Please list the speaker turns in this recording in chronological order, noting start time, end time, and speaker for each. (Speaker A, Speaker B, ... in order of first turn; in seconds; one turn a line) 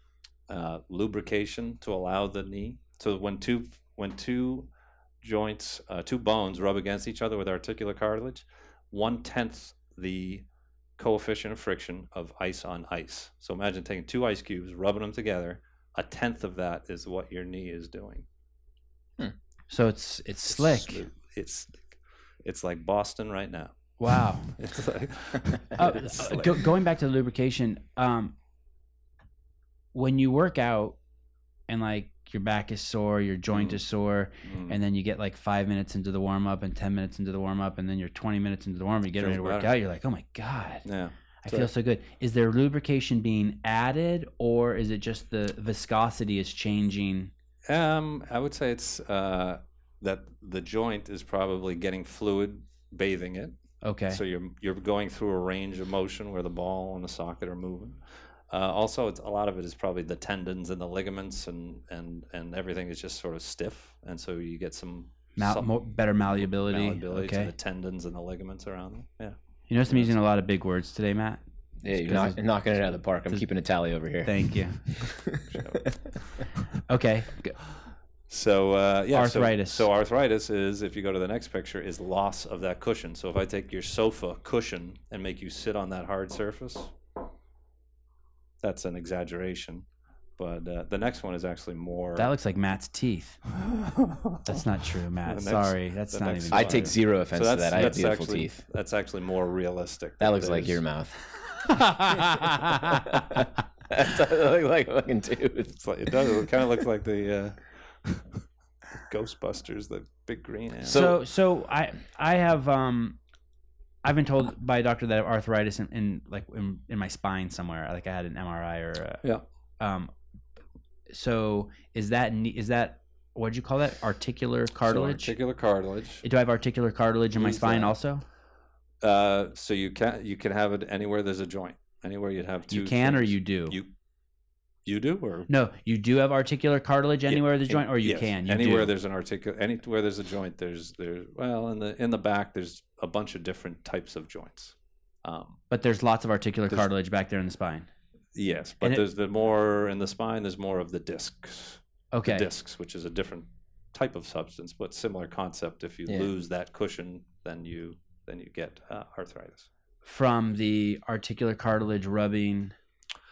Speaker A: 0.5-4.7
Speaker A: 5.2-10.4
Speaker A: 11.0-18.3
Speaker B: 19.7-21.1
Speaker A: 20.5-21.9
Speaker A: 22.4-23.8
Speaker B: 24.0-24.6
Speaker A: 24.4-26.7
Speaker B: 25.8-28.4
Speaker B: 29.9-31.0
Speaker B: 31.7-40.9
Speaker A: 33.5-33.8
Speaker A: 34.4-34.8
Speaker A: 39.2-39.7
Speaker A: 40.9-41.7
Speaker B: 41.4-47.3
Speaker A: 47.7-53.6
Speaker B: 53.8-54.2
Speaker A: 54.1-69.4
Speaker B: 65.4-67.5
Speaker B: 69.7-72.4
Speaker A: 69.9-70.1
Speaker C: 71.8-75.6
Speaker B: 74.2-74.8
Speaker A: 75.5-76.5
Speaker B: 76.9-77.6
Speaker A: 78.3-87.0
Speaker B: 79.1-79.9
Speaker A: 88.6-89.8
Speaker A: 90.4-92.3
Speaker B: 92.2-93.4
Speaker A: 93.5-94.6
Speaker B: 94.5-96.9
Speaker A: 95.2-100.8
Speaker C: 96.5-98.6
Speaker C: 100.2-101.2
Speaker B: 101.8-103.0
Speaker C: 102.8-105.8
Speaker A: 105.8-108.4
Speaker A: 108.9-111.1
Speaker C: 110.8-111.2
Speaker B: 110.9-113.2
Speaker B: 114.0-119.2
Speaker B: 119.8-120.1
Speaker B: 121.1-125.3
Speaker A: 124.8-126.2
Speaker B: 126.2-128.2
Speaker A: 127.4-128.0
Speaker A: 129.0-133.9
Speaker B: 132.7-133.8
Speaker A: 134.8-135.5
Speaker B: 135.5-138.9
Speaker A: 137.3-145.6
Speaker B: 145.7-147.9
Speaker A: 148.3-159.7
Speaker B: 152.1-152.5
Speaker B: 160.1-162.8